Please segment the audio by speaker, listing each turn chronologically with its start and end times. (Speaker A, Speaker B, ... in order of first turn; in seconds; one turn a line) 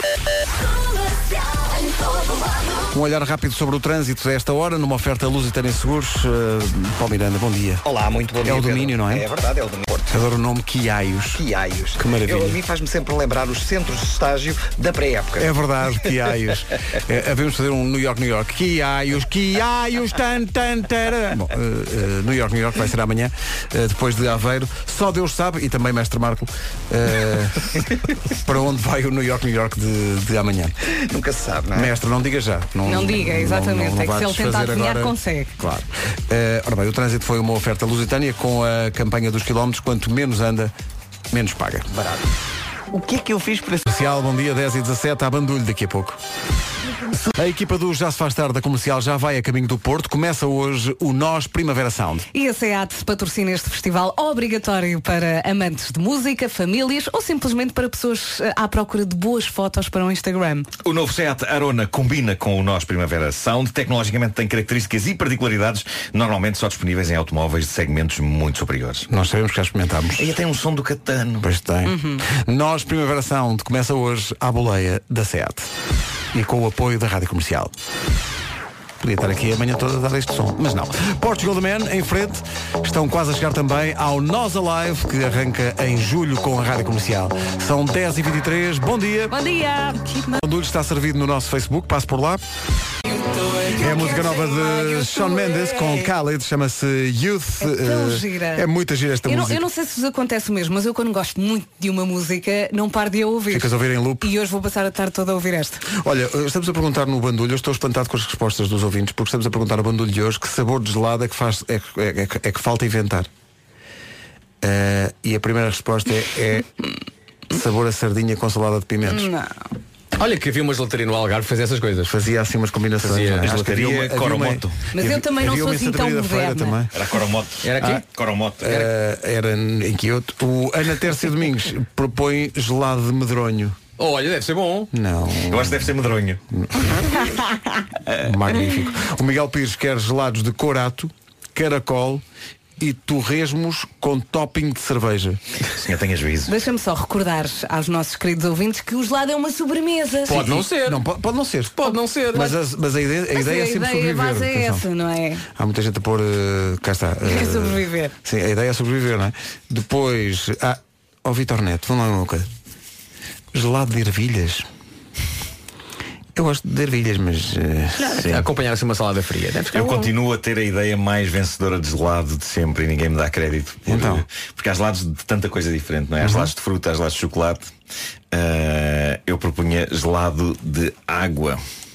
Speaker A: 2.9-7.8
Speaker B: 7.8-10.1
Speaker A: 8.4-9.2
Speaker A: 10.1-11.4
Speaker B: 11.4-15.5
Speaker A: 12.0-12.6
Speaker A: 15.4-30.8
Speaker B: 31.0-31.9
Speaker A: 31.7-40.7
Speaker C: 32.9-35.5
Speaker A: 41.3-42.1
Speaker A: 42.9-46.2
Speaker A: 47.1-52.3
Speaker C: 52.3-60.7
Speaker D: 60.8-69.1
Speaker A: 69.1-70.3
Speaker D: 70.2-71.5
Speaker A: 71.4-75.7
Speaker C: 71.8-72.2
Speaker A: 76.3-77.7
Speaker A: 79.0-89.4
Speaker C: 89.3-90.4
Speaker A: 90.3-92.4
Speaker A: 93.6-99.6
Speaker C: 93.7-95.9
Speaker C: 97.6-98.7
Speaker C: 99.3-105.8
Speaker A: 103.5-104.3
Speaker A: 105.9-113.3
Speaker A: 114.6-116.7
Speaker A: 117.5-119.3
Speaker C: 119.1-119.5
Speaker E: 120.2-122.1
Speaker A: 122.0-127.0
Speaker E: 123.0-123.6
Speaker D: 123.2-124.8
Speaker C: 124.9-126.8
Speaker D: 126.9-128.8
Speaker E: 127.6-128.0
Speaker A: 128.6-133.8
Speaker E: 134.0-134.9
Speaker A: 134.9-136.0
Speaker D: 135.5-136.4
Speaker A: 136.5-137.3
Speaker A: 138.2-142.2
Speaker A: 142.8-145.4
Speaker D: 145.7-146.5
Speaker C: 146.5-150.4
Speaker A: 150.3-154.9
Speaker E: 150.3-151.0
Speaker E: 151.8-152.6
Speaker C: 153.3-155.4
Speaker A: 155.6-162.5
Speaker C: 157.3-158.1
Speaker A: 163.5-164.7
Speaker A: 166.3-168.1
Speaker E: 168.0-170.1
Speaker D: 168.2-168.5
Speaker D: 169.7-177.7
Speaker A: 173.9-174.2
Speaker A: 176.2-176.5
Speaker D: 178.3-181.6